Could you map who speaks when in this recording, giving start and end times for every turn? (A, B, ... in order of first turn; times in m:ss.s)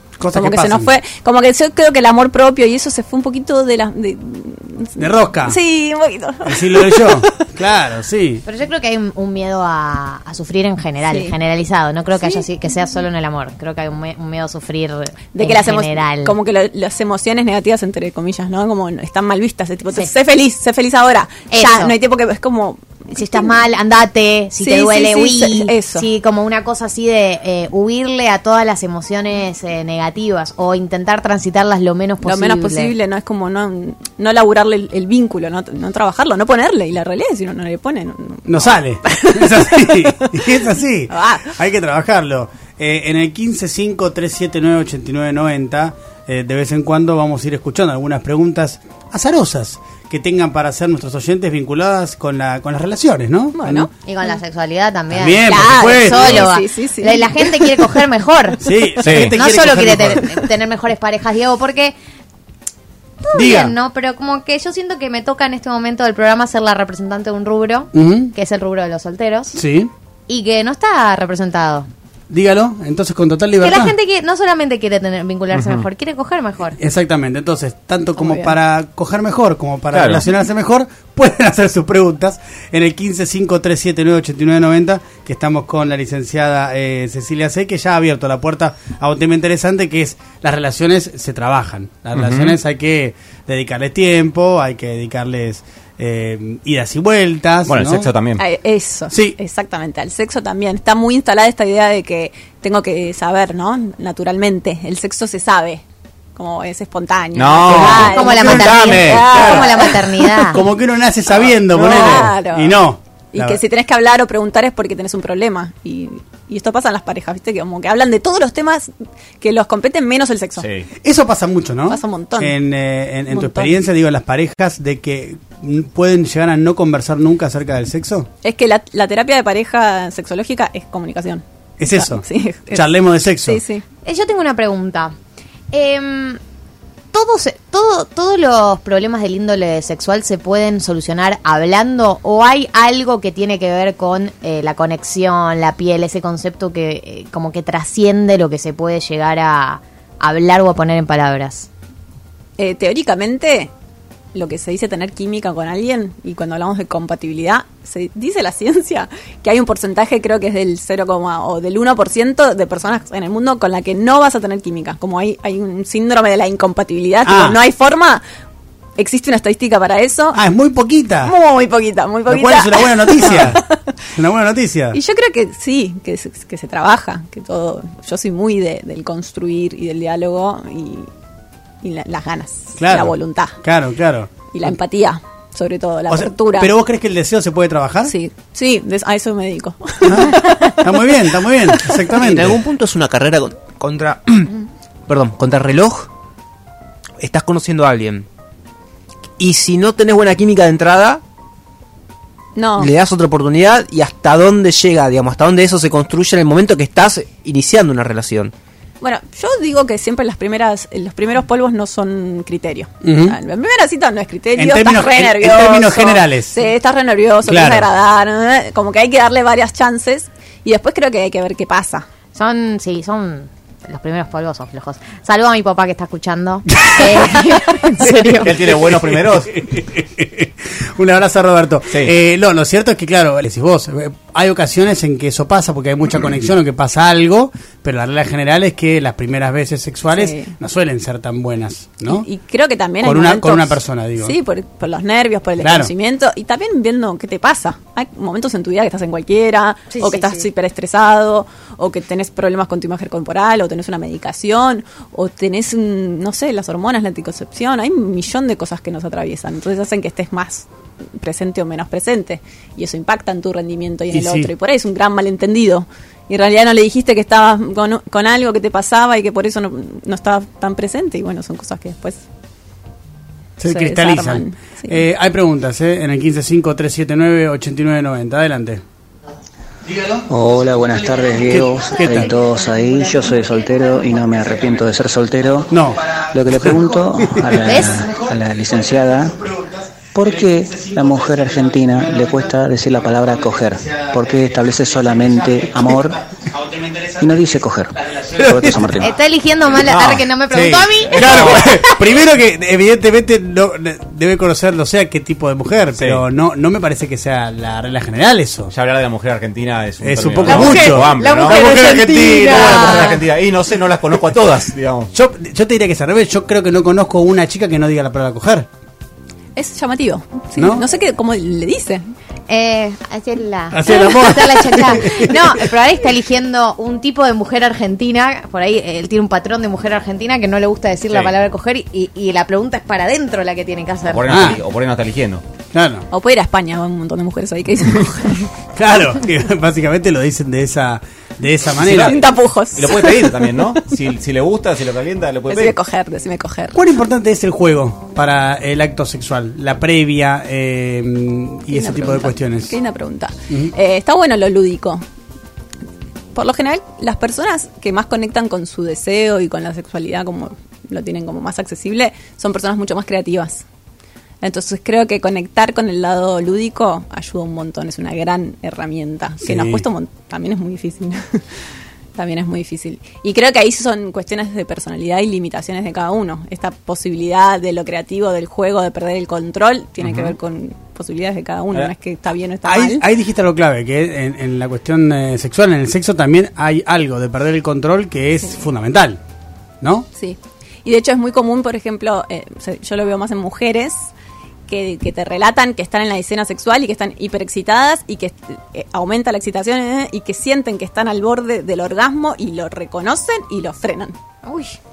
0:00.2-0:00.9 A
0:00.3-0:07.4 B
0:05.0-0:05.6 A
0:06.4-0:08.4 A
0:08.4-0:16.3 C
0:11.1-0:11.3 B
0:15.3-0:23.5 B
0:21.5-0:21.9 C
0:23.1-0:32.9 C
0:24.6-0:26.1 B
0:32.2-0:40.6 B
0:38.5-0:53.9 A
0:41.1-0:41.5 B
0:53.5-0:53.9 B
0:54.0-1:01.9 C
0:55.1-0:56.4 A
0:55.4-0:57.9 B
0:58.6-1:00.4 A
0:59.0-0:59.3 D
1:03.2-1:09.6 C
1:03.3-1:03.7 A
1:07.9-1:08.3 A
1:09.5-1:09.9 A
1:10.3-1:11.9 C
1:12.3-1:14.0 A
1:13.6-1:16.8 C
1:15.5-1:15.8 D
1:16.8-1:38.1 A
1:18.2-1:18.5 B
1:19.9-1:20.2 D
1:32.1-1:32.6 D
1:37.7-1:38.4 D
1:38.4-1:45.8 B
1:39.1-1:39.4 A
1:46.4-1:50.0 B
1:47.3-1:48.2 D
1:47.6-1:53.6 A
1:48.0-1:50.6 C
1:51.3-1:52.8 B
1:53.3-2:00.6 B
2:00.6-2:00.9 D
2:01.0-2:08.3 A
2:01.9-2:02.6 B
2:03.3-2:03.8 B
2:08.4-2:13.8 B
2:11.8-2:13.6 A
2:14.0-2:15.1 C
2:15.7-2:16.4 C
2:17.1-2:31.7 C
2:32.6-2:33.7 B
2:34.3-2:48.2 B
2:47.2-2:47.6 A
2:49.0-2:50.4 B
2:50.3-2:51.3 A
2:51.2-2:53.6 B
2:52.3-2:55.0 A
2:54.9-3:01.1 B
3:01.8-3:03.6 B
3:02.8-3:04.3 A
3:04.5-3:06.7 B
3:06.1-3:08.1 A
3:08.0-3:11.0 B
3:10.0-3:12.6 A
3:12.2-3:14.5 E
3:15.1-3:16.1 E
3:17.2-3:18.2 E
3:19.4-3:21.2 E
3:22.5-3:22.9 B
3:22.8-3:28.5 E
3:29.0-3:42.0 B
3:33.0-3:33.4 A
3:34.6-3:36.6 A
3:37.5-3:37.9 A
3:42.3-3:48.5 C
3:46.7-3:47.4 A
3:48.0-4:02.3 A
3:48.4-3:49.5 D
4:00.1-4:00.5 B
4:02.0-4:20.7 B
4:03.0-4:04.4 A
4:05.6-4:05.9 A
4:09.9-4:10.4 C
4:21.2-4:32.2 B
4:24.1-4:24.5 A
4:33.6-4:38.8 A
4:33.6-4:35.0 B
4:39.8-4:40.2 A
4:40.3-4:45.8 F
4:40.9-4:42.4 A
4:41.9-4:44.0 C
4:44.5-4:44.8 A
4:45.7-4:57.4 A
4:46.3-4:49.3 F
4:47.6-4:48.0 C
4:50.1-4:56.2 F
4:57.2-4:59.1 F
4:58.0-4:59.1 A
4:59.0-5:01.8 C
4:59.7-5:01.9 D
5:00.5-5:08.7 A
5:06.0-5:06.2 D
5:08.7-5:11.7 D
5:10.0-5:13.1 A
5:10.5-5:12.6 B
5:12.5-5:15.1 D
5:12.6-5:13.1 C
5:15.1-5:18.7 A
5:19.6-5:22.0 B
5:20.6-5:20.8 A
5:22.5-5:34.5 C
5:23.7-5:25.5 A
5:31.1-5:31.3 D
5:34.0-5:35.4 D
5:34.3-5:34.6 A
5:35.7-5:36.0 A
5:36.1-5:38.5 B
5:38.7-5:42.2 A
5:41.8-5:42.2 D
5:41.9-5:43.5 B
5:42.7-5:45.8 D
5:45.5-5:46.8 B
5:46.7-5:52.8 A
5:51.7-5:55.0 B
5:56.3-6:03.6 B
6:04.4-6:11.4 B
6:09.4-6:09.8 A
6:12.1-6:23.0 B
6:20.0-6:20.3 D
6:22.6-6:29.2 A
6:29.8-6:30.1 A
6:30.2-6:34.1 B
6:34.7-6:44.2 B
6:44.4-6:44.8 C